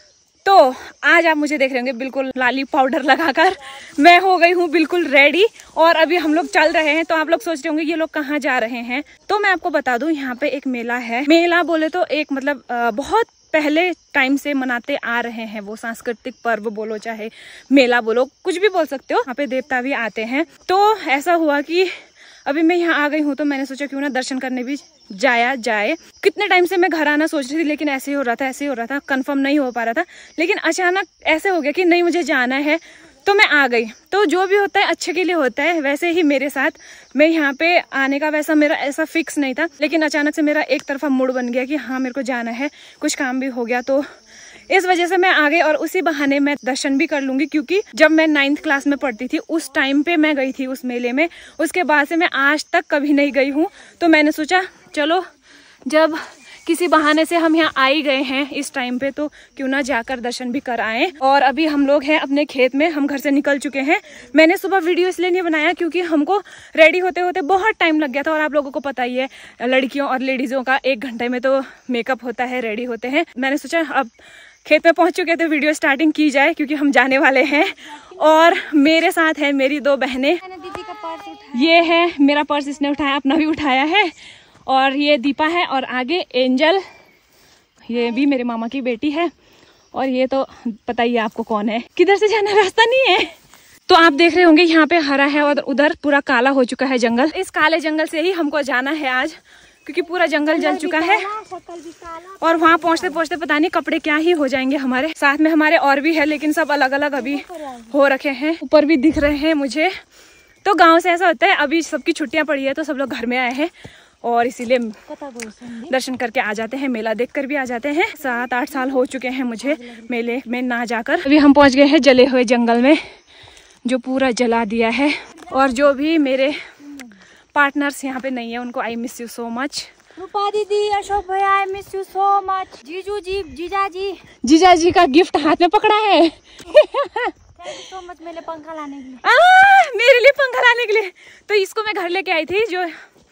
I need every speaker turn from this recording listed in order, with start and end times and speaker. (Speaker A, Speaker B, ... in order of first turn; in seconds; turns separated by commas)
Speaker A: 0.4-21.9, Speaker A: 22.4-44.0, Speaker A: 44.7-55.2, Speaker A: 55.9-74.1, Speaker A: 74.6-80.4, Speaker B: 80.4-81.8, Speaker A: 81.5-84.1, Speaker A: 84.7-86.8, Speaker A: 87.8-89.3, Speaker A: 89.9-101.3, Speaker B: 100.4-103.0, Speaker A: 102.4-109.9, Speaker B: 107.3-107.8, Speaker A: 110.6-115.0, Speaker B: 115.1-115.9, Speaker A: 115.8-123.0, Speaker A: 123.8-126.6, Speaker A: 127.5-129.9, Speaker B: 130.2-134.2, Speaker A: 134.4-137.3, Speaker B: 137.6-139.2, Speaker A: 139.2-142.9